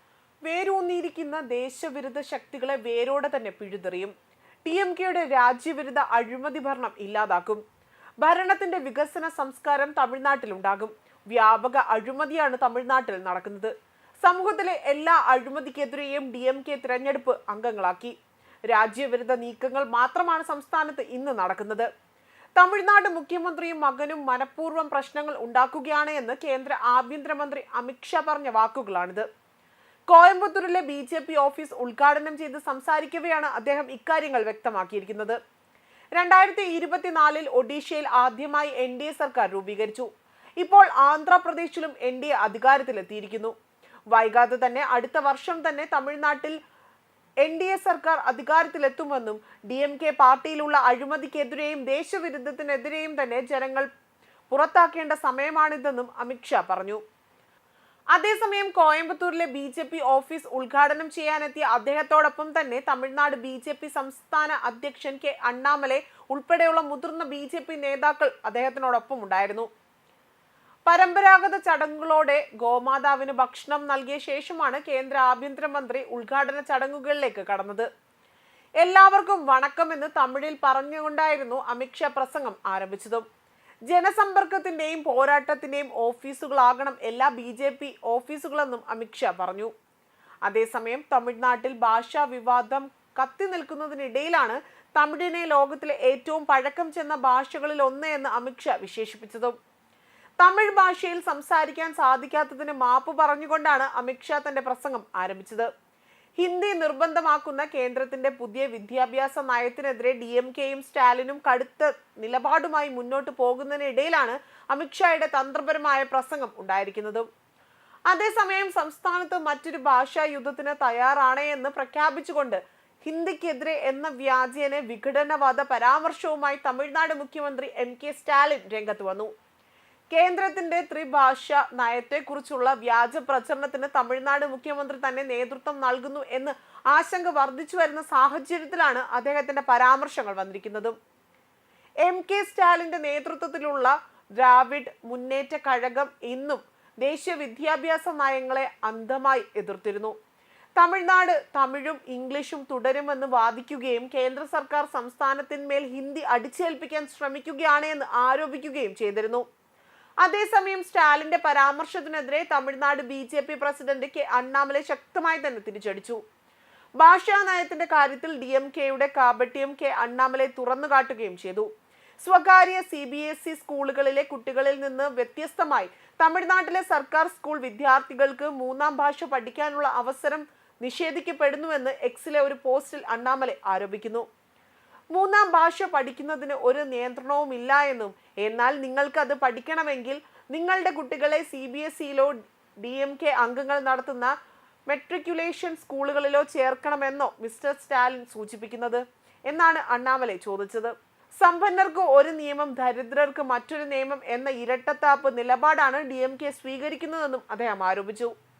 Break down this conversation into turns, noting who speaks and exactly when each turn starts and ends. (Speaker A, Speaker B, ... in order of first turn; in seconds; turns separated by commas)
Speaker A: 0.5-4.1, Speaker A: 4.6-7.6, Speaker A: 8.2-18.1, Speaker A: 18.7-21.9, Speaker A: 22.6-29.2, Speaker A: 30.1-35.4, Speaker A: 36.1-40.1, Speaker A: 40.6-43.5, Speaker A: 44.1-46.6, Speaker A: 47.4-53.9, Speaker A: 54.5-57.0, Speaker A: 58.1-69.7, Speaker A: 70.9-77.9, Speaker A: 78.8-83.2, Speaker A: 83.9-89.7, Speaker A: 90.4-99.5, Speaker A: 100.4-105.7, Speaker A: 106.4-117.3, Speaker A: 118.1-129.3, Speaker A: 130.1-140.9, Speaker A: 142.0-150.2, Speaker A: 150.8-159.4, Speaker A: 160.2-166.2, Speaker A: 167.0-171.7, Speaker A: 172.2-184.3, Speaker A: 185.1-194.3, Speaker A: 194.9-208.3